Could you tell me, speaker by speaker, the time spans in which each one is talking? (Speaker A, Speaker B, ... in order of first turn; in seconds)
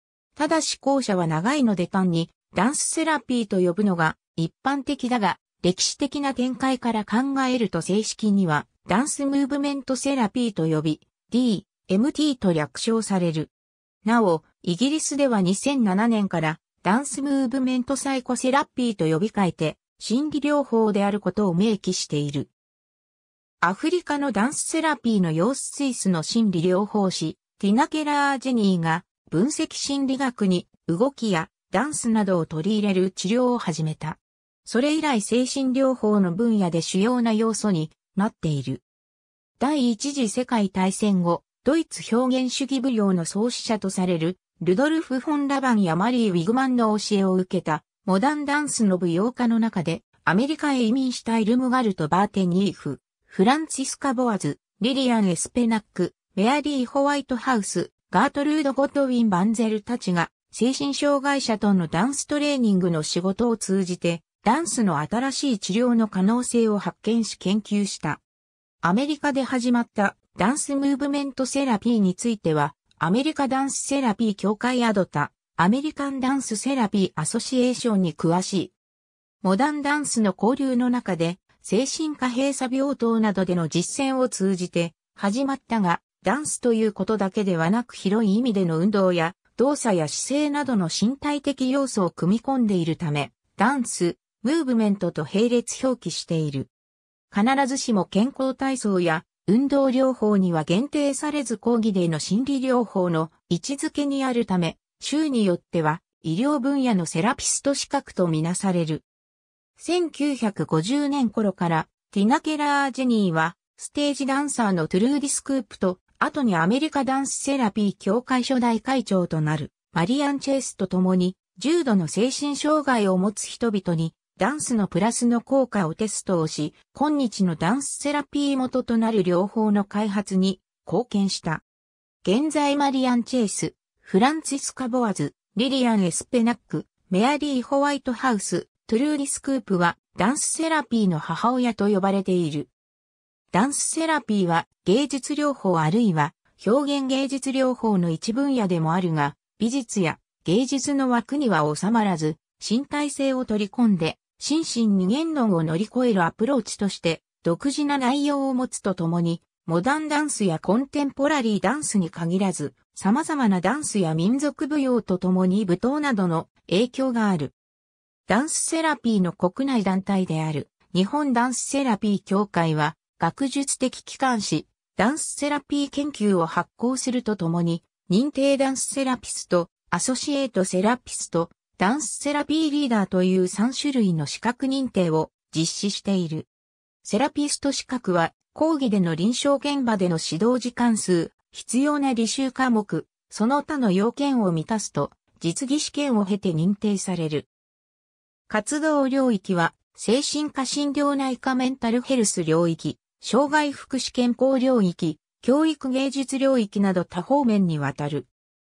Speaker A: 0.4-13.5, 14.1-22.5, 23.6-38.8, 39.6-68.2, 68.8-78.7, 79.4-96.7, 97.3-109.0, 109.8-131.6, 132.2-142.7, 143.5-167.6, 168.3-186.5, 187.0-197.5, 198.5-208.3